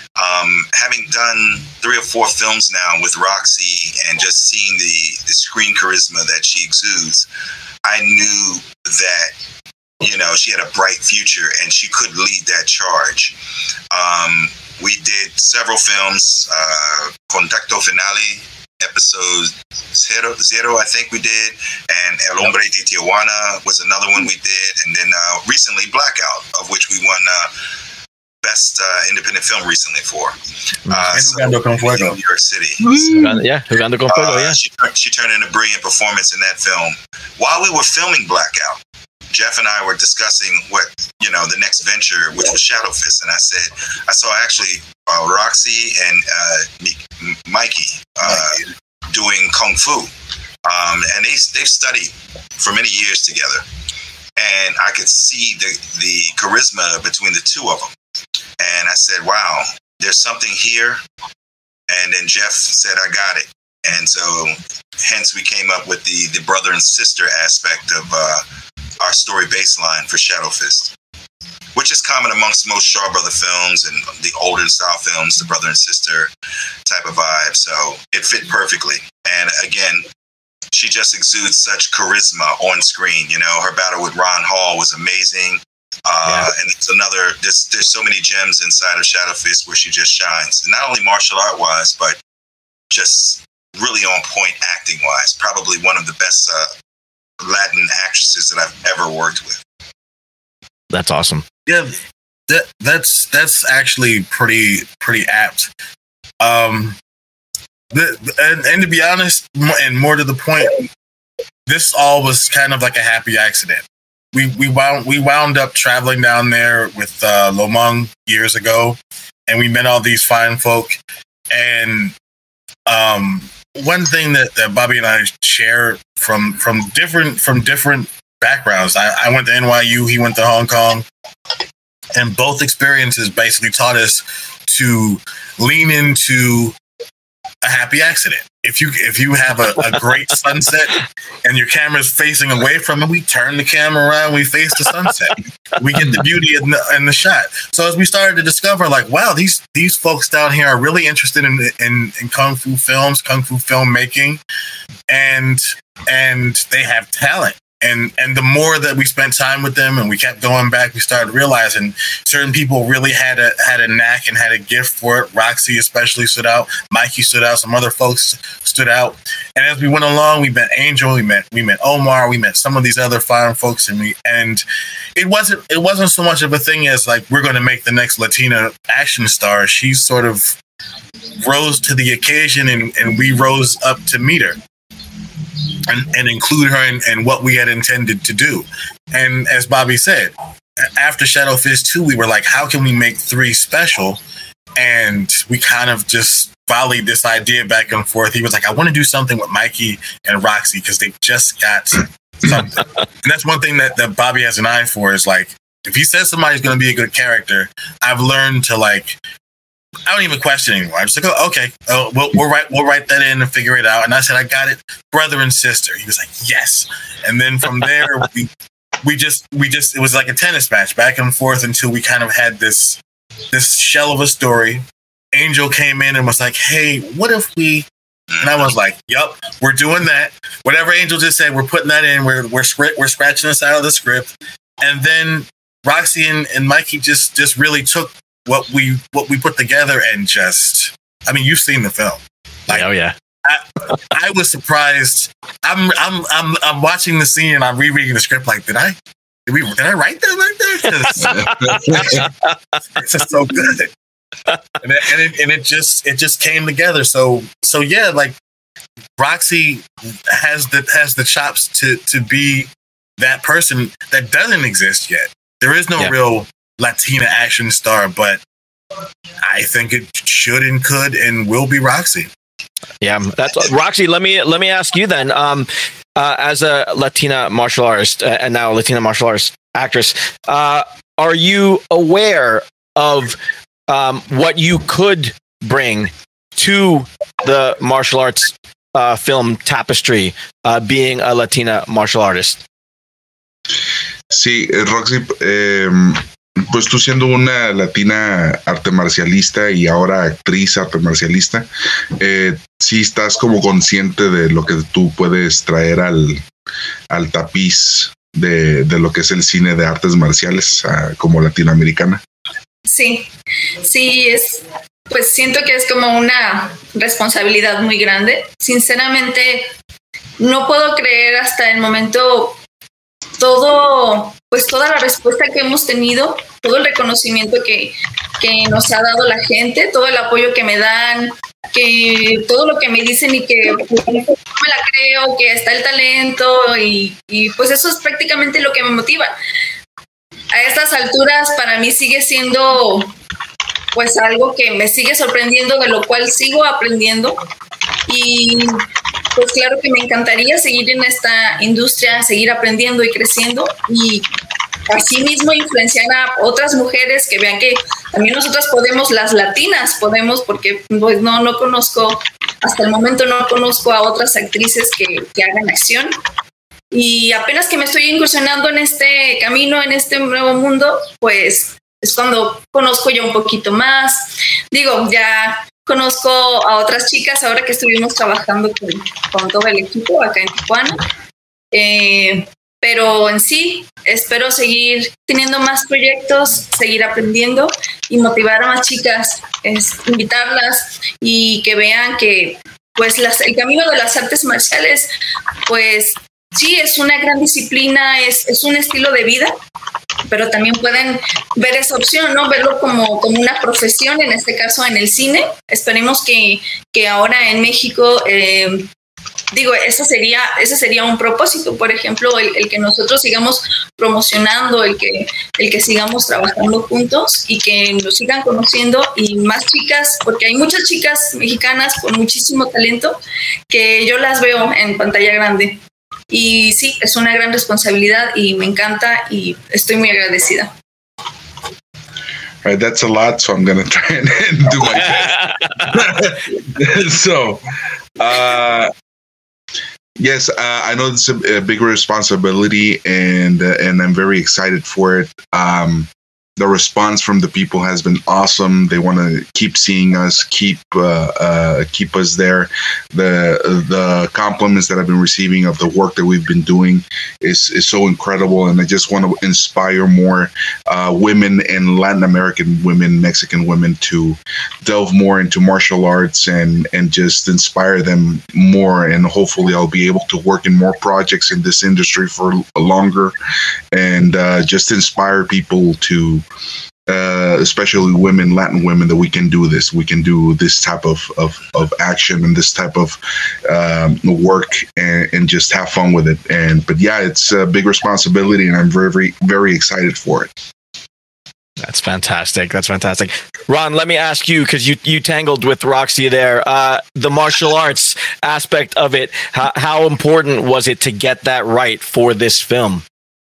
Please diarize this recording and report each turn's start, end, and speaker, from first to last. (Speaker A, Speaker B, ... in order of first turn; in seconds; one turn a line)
Speaker A: 0.2-7.3
Speaker A: 7.8-9.3
Speaker A: 10.0-13.4
Speaker A: 13.9-27.5
Speaker A: 28.4-30.4
Speaker A: 30.9-32.8
Speaker B: 31.1-32.2
Speaker C: 32.8-33.4
Speaker D: 33.0-34.6
Speaker A: 34.1-50.1
Speaker A: 50.6-53.6
Speaker A: 54.4-57.9
Speaker A: 58.6-61.0
Speaker A: 61.9-68.4
Speaker A: 69.0-70.9
Speaker A: 71.8-76.3
Speaker A: 76.8-80.1
Speaker A: 80.7-92.2
Speaker D: 86.2-86.5
Speaker A: 92.9-96.7
Speaker A: 97.4-99.6
Speaker D: 100.9-101.4
Speaker B: 101.7-101.9
Speaker B: 102.5-105.7
Speaker B: 106.4-107.0
Speaker B: 107.9-110.9
Speaker B: 111.7-121.0
Speaker B: 121.5-122.1
Speaker B: 122.9-131.1
Speaker B: 132.2-136.7
Speaker B: 137.6-154.4
Speaker B: 155.1-180.6
Speaker B: 181.4-184.6
Speaker B: 185.9-190.3
Speaker B: 190.8-194.2
Speaker B: 194.8-209.2
Speaker B: 210.1-218.5
Speaker B: 219.0-223.0
Speaker B: 223.5-224.8
Speaker B: 225.3-227.9
Speaker A: 228.3-228.7
Speaker B: 228.4-242.9
Speaker D: 242.7-243.1
Speaker B: 243.5-249.0
Speaker B: 249.5-252.3
Speaker D: 251.0-252.5
Speaker C: 251.3-252.1
Speaker B: 253.0-253.9
Speaker B: 254.8-258.4
Speaker B: 259.2-268.4
Speaker B: 269.4-272.3
Speaker D: 273.0-283.4
Speaker D: 283.9-292.6
Speaker C: 294.3-301.7
Speaker C: 302.2-306.4
Speaker C: 307.1-312.2
Speaker E: 312.9-313.3
Speaker E: 313.8-319.7
Speaker E: 320.4-322.6
Speaker E: 323.4-339.3
Speaker E: 340.5-343.1
Speaker E: 343.9-347.4
Speaker E: 348.1-348.8
Speaker E: 349.4-354.3
Speaker E: 354.9-366.1
Speaker E: 366.9-381.0
Speaker E: 381.7-395.1
Speaker E: 395.7-399.5
Speaker E: 400.3-408.9
Speaker E: 409.5-430.7
Speaker C: 432.6-437.6
Speaker D: 434.9-436.1
Speaker C: 438.2-438.9
Speaker C: 440.2-473.4
Speaker C: 473.9-476.4
Speaker C: 477.1-490.5
Speaker D: 491.8-503.0